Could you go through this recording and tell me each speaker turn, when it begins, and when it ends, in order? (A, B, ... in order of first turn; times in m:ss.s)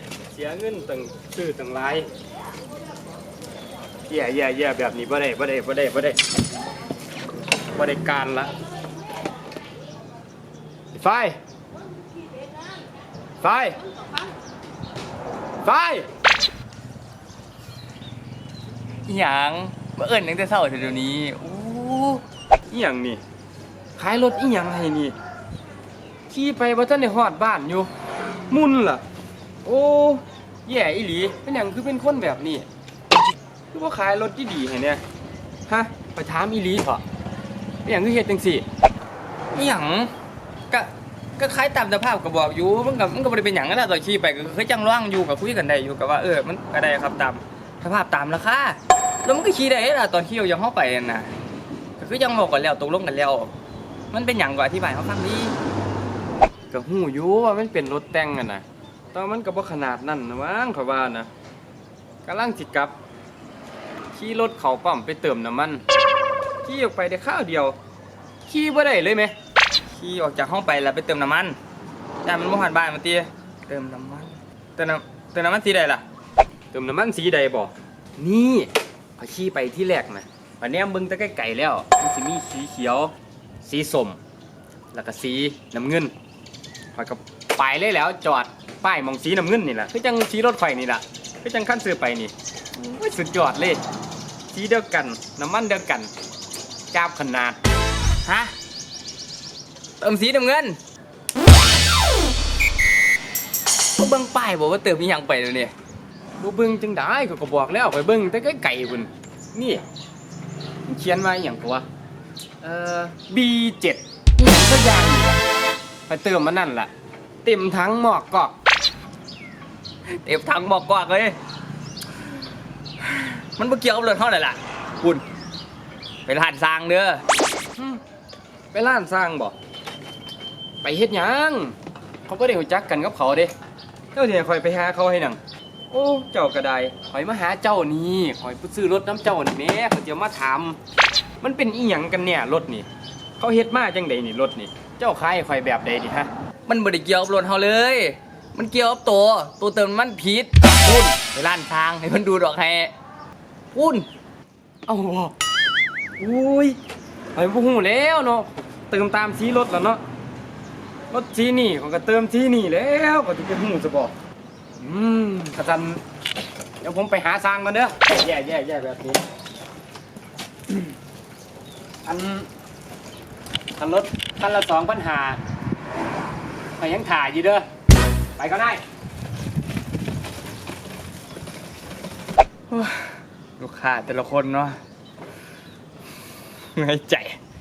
0:00.3-0:02.1 A
0:04.1-0:06.2 A
0:07.8-0:08.5 A
0:10.9-0:11.4 A
0:13.4-0:13.8 A
0:15.6-0:16.1 A
0:19.1-0:22.2 B
0:22.7-0:23.2 A
0:24.0-0:25.2 A
0:26.3-0:27.9 A
0:28.5-0:29.0 A
0:29.6-0:32.7 A
0:33.7-0:35.0 A
0:35.7-0:37.0 A
0:37.8-0:38.6 A
0:39.6-0:40.1 B
0:40.7-0:51.3 B
0:42.3-0:47.4 A
0:52.0-0:53.5 B
0:54.1-0:55.6 B
0:56.7-1:01.3 A
1:02.2-1:03.0 A
1:04.1-1:05.8 A
1:06.6-1:07.8 A
1:08.5-1:09.3 A
1:10.0-1:11.6 B
1:10.0-1:10.3 A
1:12.3-1:16.0 B
1:16.7-1:24.2 A
1:24.9-1:26.1 A
1:26.9-1:33.8 A
1:34.5-1:36.1 A
1:36.9-1:37.6 A
1:38.3-1:38.5 B
1:40.0-1:40.8 B
1:44.0-1:45.7 B
1:46.4-1:49.9 A
1:50.9-1:51.9 A
1:52.6-1:55.4 A
1:56.1-1:56.9 A
1:57.4-1:58.6 A
2:00.2-2:01.4 B
2:03.0-2:05.2 B
2:06.3-2:07.2 B
2:08.7-2:09.6 A
2:10.8-2:11.8 A
2:12.3-2:13.5 A
2:14.1-2:15.4 A
2:15.9-2:20.8 A
2:21.4-2:22.9 A
2:23.4-2:26.3 A
2:26.7-2:32.9 B
2:33.7-2:34.1 B
2:34.9-2:35.3 A
2:36.2-2:36.8 A
2:37.3-2:40.0 A
2:41.1-2:44.1 A
2:44.8-2:46.0 A
2:46.8-2:49.2 A
2:52.0-2:52.5 A
2:53.8-2:55.4 A
2:56.8-2:57.7 A
2:58.4-2:58.8 A
3:02.7-3:03.1 B
3:03.6-3:04.8 B
3:06.8-3:07.4 B
3:06.8-3:07.3 A